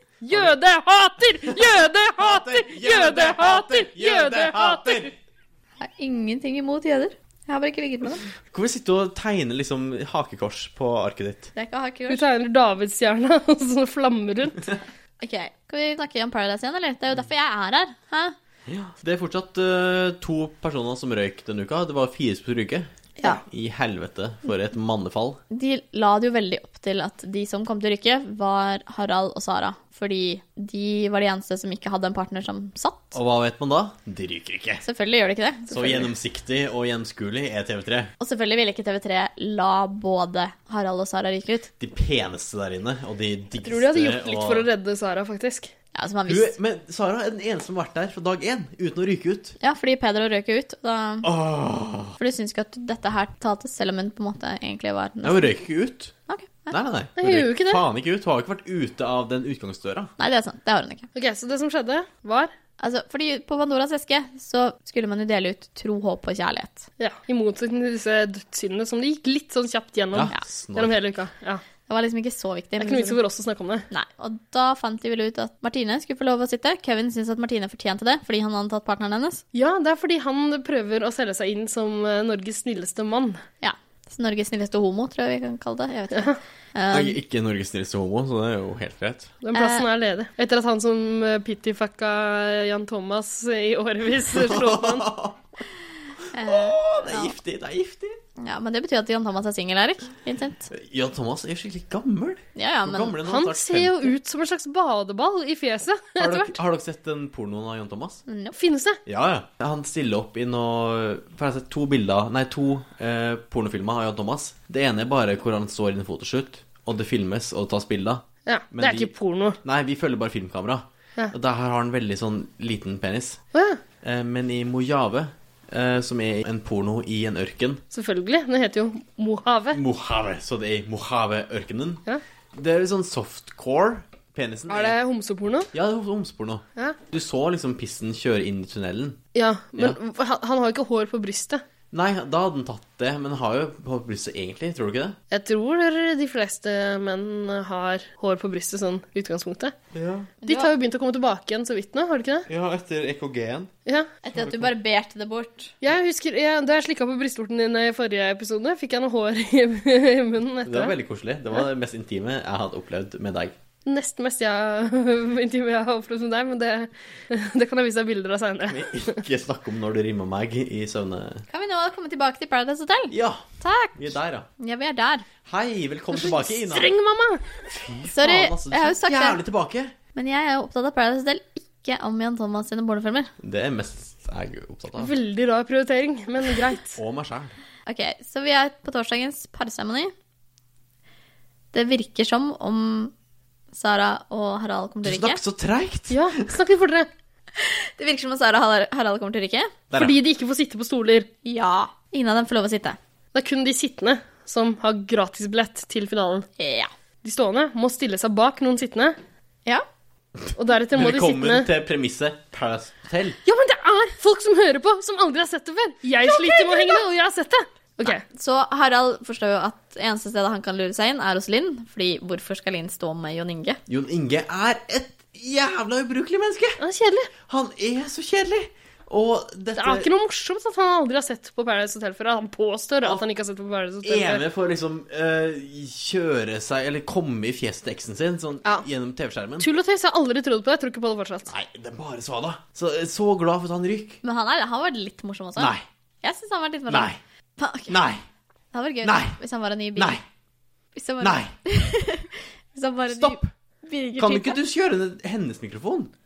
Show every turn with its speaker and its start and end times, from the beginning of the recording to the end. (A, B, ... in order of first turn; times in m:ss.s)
0:00.2-0:05.1 A
0:02.2-0:05.1 B
0:05.8-0:08.2 C
0:08.5-0:11.5 B
0:11.5-0:12.2 C
0:12.1-0:14.7 A
0:15.2-0:18.3 C
0:18.7-0:25.4 B
0:25.5-0:33.2 C
0:33.1-0:34.8 B
0:34.8-0:36.1 C
0:35.7-0:38.1 B
0:38.2-0:41.7 C
0:41.8-0:44.7 B
0:43.6-0:45.7 A
0:45.9-0:46.5 C
0:46.3-0:49.6 B
0:49.6-0:51.3 C
0:51.2-0:52.2 B
0:52.2-0:55.6 C
0:55.2-0:56.1 B
0:56.3-0:56.8 C
0:56.7-1:00.1 B
0:57.2-0:57.8 A
1:00.2-1:01.1 C
1:01.1-1:02.5 A
1:02.8-1:06.8 C
1:07.0-1:11.6 A
1:10.1-1:11.0 B
1:11.9-1:13.2 C
1:12.8-1:13.8 A
1:13.9-1:19.4 C
1:19.5-1:23.4 A
1:23.6-1:27.2 C
1:26.1-1:26.4 A
1:26.9-1:29.3 B
1:29.4-1:35.1 A
1:29.5-1:29.8 C
1:34.3-1:35.4 B
1:36.3-1:37.3 C
1:36.3-1:38.2 B
1:38.4-1:40.7 C
1:40.7-1:44.1 B
1:42.6-1:43.2 C
1:43.2-1:46.6 A
1:46.2-1:48.2 B
1:48.3-1:48.6 C
1:48.5-1:49.0 A
1:49.0-1:59.1 B
1:58.4-1:59.6 A
1:59.6-2:03.4 B
2:03.5-2:03.8 A
2:04.0-2:07.8 B
2:07.9-2:09.8 A
2:09.7-2:12.0 B
2:12.5-2:15.0 B
2:14.7-2:15.7 A
2:15.7-2:19.2 B
2:19.3-2:21.6 A
2:21.9-2:25.2 B
2:25.3-2:29.7 A
2:29.9-2:30.3 B
2:30.4-2:30.7 C
2:30.4-2:32.5 A
2:32.5-2:33.7 B
2:34.2-2:35.7 C
2:34.4-2:34.7 B
2:35.8-2:40.9 A
2:40.6-2:43.6 B
2:43.8-2:48.9 A
2:48.7-2:51.4 B
2:51.5-2:54.0 C
2:53.1-2:54.5 B
2:54.6-2:55.2 C
2:55.4-2:56.9 B
2:56.2-2:57.5 A
2:57.7-2:59.9 B
2:58.1-2:59.4 C
3:00.1-3:03.3 C
3:03.4-3:05.1 B
3:05.0-3:07.0 A
3:07.0-3:07.6 B
3:07.8-3:10.1 C
3:11.7-3:13.1 C
3:13.7-3:15.4 C
3:15.0-3:16.5 B
3:16.1-3:17.1 A
3:17.6-3:19.7 C
3:19.9-3:20.2 B
3:20.0-3:21.3 A
3:21.4-3:23.0 C
3:23.3-3:26.5 A
3:26.6-3:26.9 C
3:27.2-3:29.2 A
3:30.4-3:33.4 B
3:30.6-3:31.7 A
3:33.4-3:38.2 A
3:36.2-3:37.0 C
3:38.1-3:43.8 C
3:43.9-3:46.8 B
3:46.8-3:47.3 A
3:47.5-3:50.1 B
3:49.8-3:54.4 A
3:54.0-3:59.7 B
3:59.6-4:01.5 A
4:01.5-4:04.2 B
4:04.2-4:08.0 C
4:05.6-4:05.8 B
4:06.9-4:07.2 B
4:07.9-4:08.2 B
4:08.7-4:10.2 C
4:09.0-4:09.4 B
4:10.0-4:10.2 B
4:10.9-4:14.6 C
4:11.2-4:11.5 B
4:13.1-4:13.5 B
4:14.2-4:16.1 B